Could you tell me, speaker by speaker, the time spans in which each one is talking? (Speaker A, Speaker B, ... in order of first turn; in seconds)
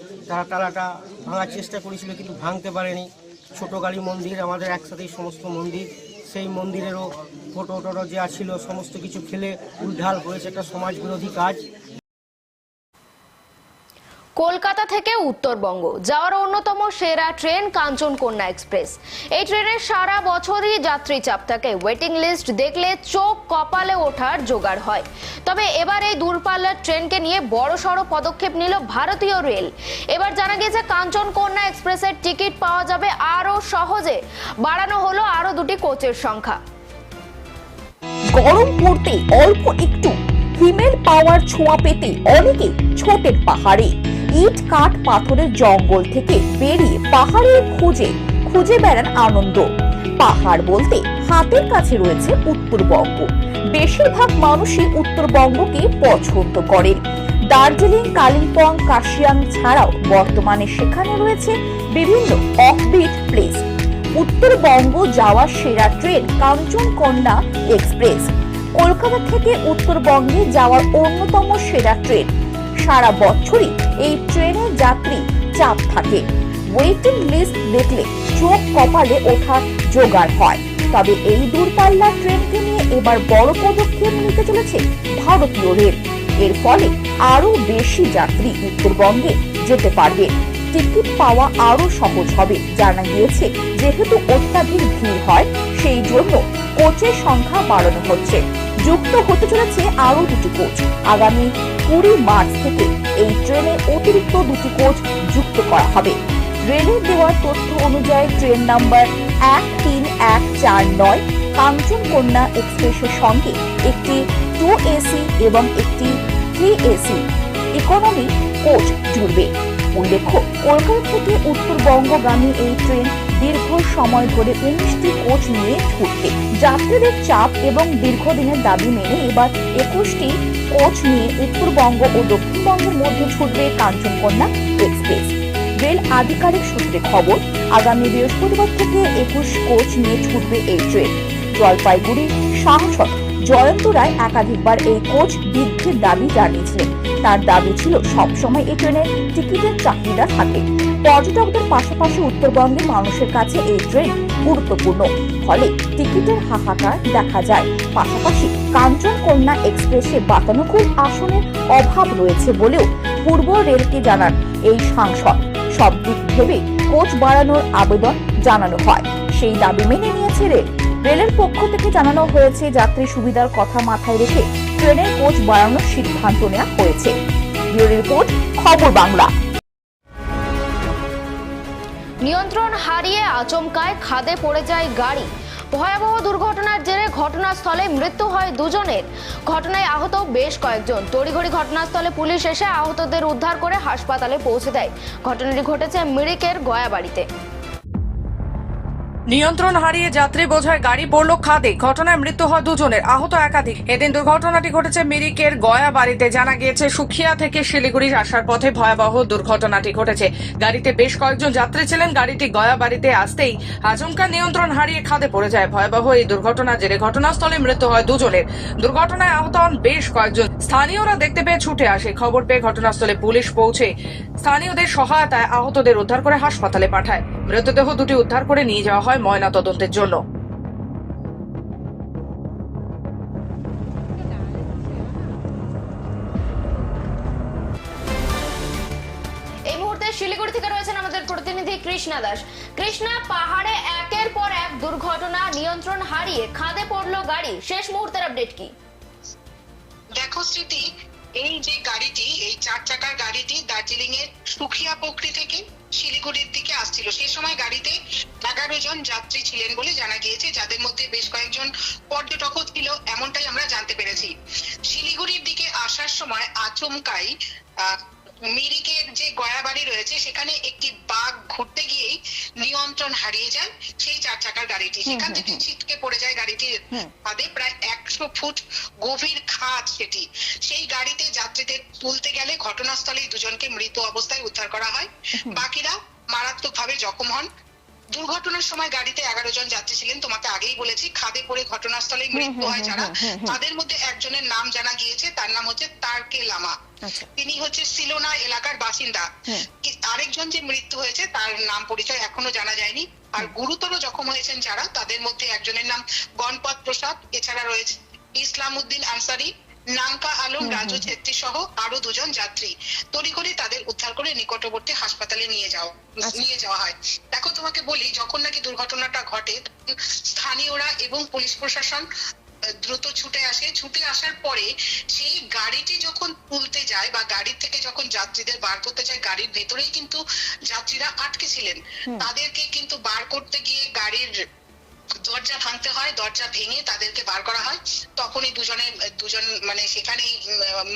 Speaker A: 0.3-11.6
Speaker B: 14.4-36.6, 182.2-197.3, 239.7-248.7, 275.1-275.6, 285.4-285.6, 292.4-293.6, 310.6-311.1
Speaker C: 38.3-49.7, 50.2-63.6, 64.2-72.3, 72.8-106.2, 106.7-117.2, 117.7-177.2, 177.7-179.3
Speaker D: 199.3-223.9, 224.4-230.2
Speaker E: 250.2-250.8, 251.4-264.3, 264.9-267.3, 268.5-272.1, 272.6-287.5, 288.1-296.7, 297.4-322.1, 322.9-334.3, 335.3-340.8